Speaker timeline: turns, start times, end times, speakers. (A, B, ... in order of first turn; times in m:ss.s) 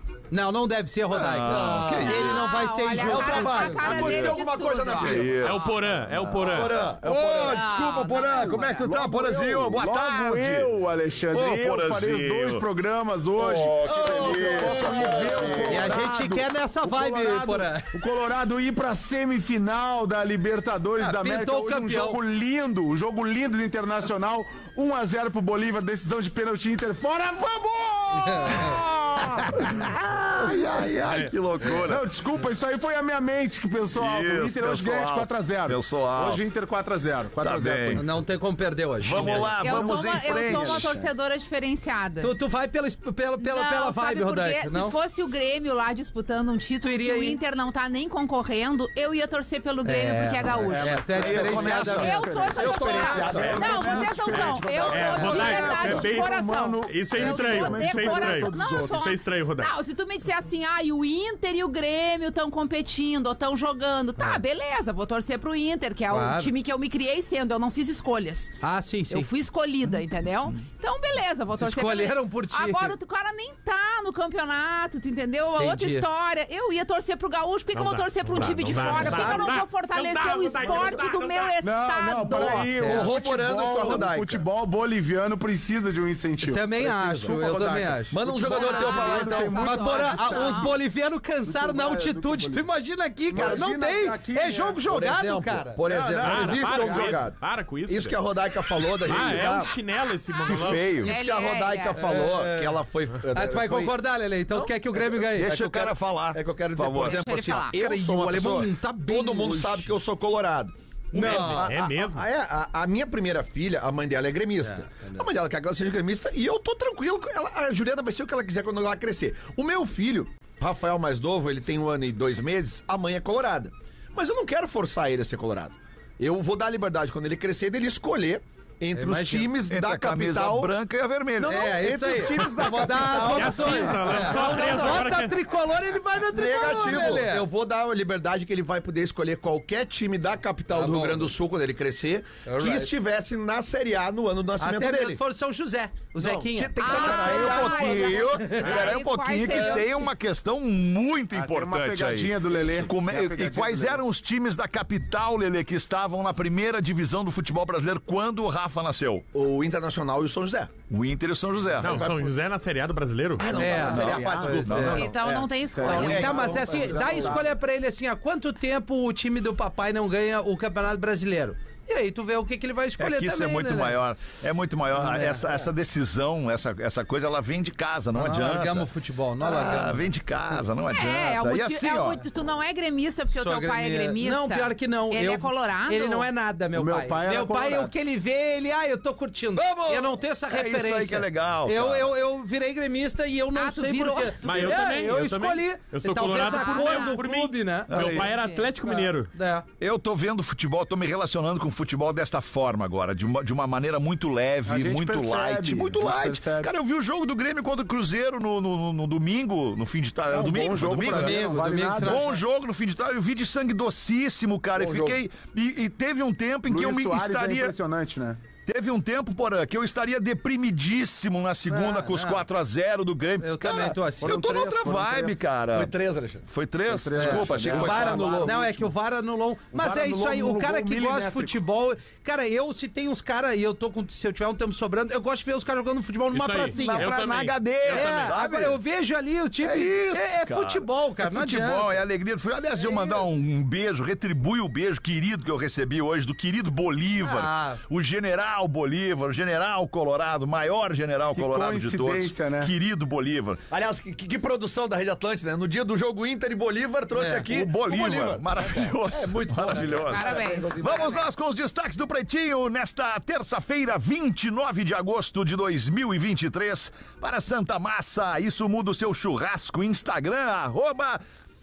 0:00.3-0:03.8 A
0:01.1-0:02.5 B
0:01.5-0:01.9 C
0:02.0-0:05.2 D
0:03.0-0:05.7 C
0:03.9-0:10.7 B
0:05.4-0:06.8 E
0:06.4-0:07.7 C
0:07.3-0:08.9 D
0:08.2-0:29.8 F
0:11.3-0:12.7 B
0:13.4-0:16.0 B
0:13.8-0:15.8 C
0:15.7-0:17.9 A
0:21.0-0:22.2 A
0:28.2-0:28.7 A
0:29.3-0:32.1 B
0:31.0-0:31.3 E
0:31.7-0:38.1 F
0:33.9-0:36.4 B
0:37.4-0:38.0 B
0:38.0-0:39.5 A
0:39.0-0:40.9 B
0:39.5-0:42.3 D
0:39.6-0:41.1 F
0:42.2-0:45.0 A
0:43.4-1:08.6 D
0:46.8-0:47.4 A
0:49.8-0:52.2 A
0:50.6-0:59.1 F
0:51.2-0:52.1 B
0:52.5-0:54.2 C
0:53.2-0:59.7 E
1:06.1-1:06.5 A
1:08.6-1:09.3 A
1:09.1-1:22.7 D
1:11.6-1:13.0 A
1:15.6-1:16.1 A
1:17.7-1:21.5 E
1:18.7-1:19.6 A
1:21.6-1:30.8 F
1:22.4-1:23.1 A
1:22.8-1:24.4 C
1:26.4-1:28.2 A
1:28.1-1:29.7 C
1:28.5-1:30.8 D
1:29.6-1:37.1 A
1:31.4-1:32.7 F
1:33.3-1:34.8 F
1:33.3-1:33.7 C
1:34.8-1:39.7 C
1:35.9-1:36.3 F
1:36.2-1:38.2 E
1:39.0-1:41.0 E
1:39.1-1:39.4 B
1:40.5-1:41.1 B
1:40.5-1:44.0 C
1:41.0-1:42.0 D
1:41.9-1:42.8 A
1:43.3-1:45.6 A
1:44.5-2:10.7 C
1:45.3-1:47.3 B
1:47.0-1:47.8 D
1:47.7-1:49.9 A
1:51.1-1:51.7 A
1:51.2-1:52.3 E
1:54.6-1:55.1 A
2:09.0-2:09.5 A
2:09.7-2:11.9 B
2:11.4-2:15.1 C
2:11.5-2:17.4 A
2:13.0-2:15.4 E
2:16.3-2:25.2 C
2:20.7-2:21.3 A
2:22.4-2:22.9 A
2:24.6-2:27.8 A
2:26.2-2:28.5 C
2:26.8-2:30.1 D
2:27.2-2:39.3 B
2:28.6-2:29.0 E
2:31.3-2:34.0 F
2:39.3-2:40.7 C
2:40.9-2:42.1 B
2:41.8-2:42.3 C
2:41.8-2:43.5 E
2:43.4-2:47.5 C
2:43.6-2:45.1 A
2:43.6-2:47.5 F
2:43.9-2:44.9 B
2:44.9-2:46.4 D
2:45.9-2:54.0 A
2:53.0-2:58.9 B
2:54.9-2:55.5 A
2:58.1-3:00.1 A
2:59.4-3:02.2 B
3:00.9-3:06.3 D
3:03.3-3:18.1 A
3:06.7-3:07.9 F
3:09.6-3:10.1 C
3:10.5-3:12.1 B
3:13.5-3:14.8 D
3:14.4-3:19.3 E
3:16.4-3:17.2 D
3:17.9-3:18.4 B
3:18.0-3:18.7 D
3:18.9-3:19.7 A
3:19.8-3:37.8 B
3:24.7-3:26.7 F
3:30.3-3:32.3 F
3:31.0-3:32.4 A
3:34.8-3:35.2 C
3:36.7-3:38.4 F
3:38.6-3:45.9 B
3:41.7-3:42.5 A
3:43.4-3:44.4 A
3:44.2-3:45.5 F
3:45.7-3:46.4 C
3:46.5-3:48.3 B
3:46.9-3:48.9 F
3:47.2-3:47.5 A
3:47.3-3:48.6 C
3:48.4-3:57.1 A
3:49.7-3:51.6 F
3:56.3-3:58.4 E
3:56.7-3:58.8 B
3:57.9-4:02.0 A
3:59.6-4:13.6 B
4:02.8-4:03.2 A
4:07.2-4:07.8 A
4:11.4-4:12.7 F
4:13.7-4:21.2 C
4:17.1-4:17.5 A
4:17.5-4:31.2 B
4:20.1-4:21.1 D